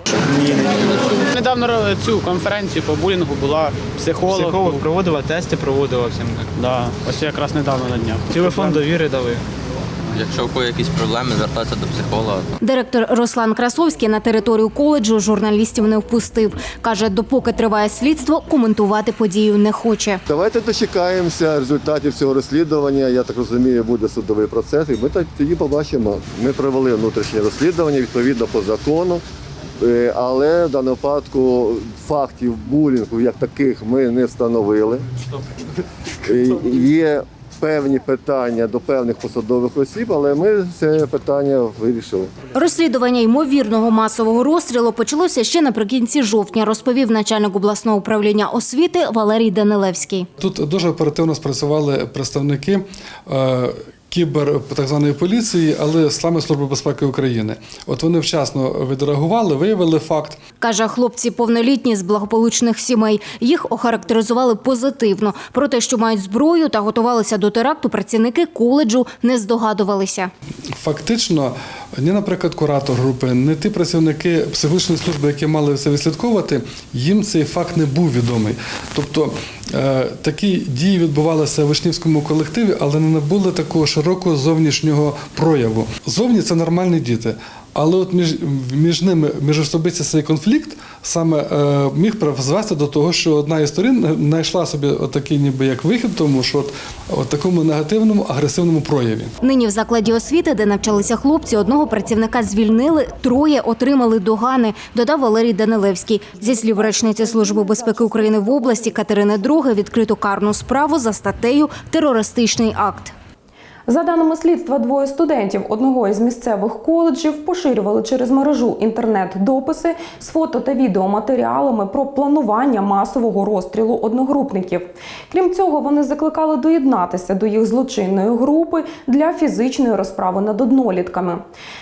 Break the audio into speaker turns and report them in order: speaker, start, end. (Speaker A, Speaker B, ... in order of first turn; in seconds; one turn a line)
Speaker A: 0.2-5.0
Speaker B: 0.7-1.2
Speaker C: 4.3-6.5
Speaker A: 6.6-8.9
Speaker C: 8.3-9.4
Speaker B: 10.1-12.5
Speaker D: 12.6-20.2
Speaker E: 20.3-29.2
Speaker E: 29.8-35.1
Speaker E: 36.2-42.3
Speaker D: 42.5-50.3
Speaker F: 50.4-60.4
Speaker D: 60.6-70.3
Speaker F: 70.7-99.3
Speaker D: 99.4-113.1
Speaker G: 113.9-131.4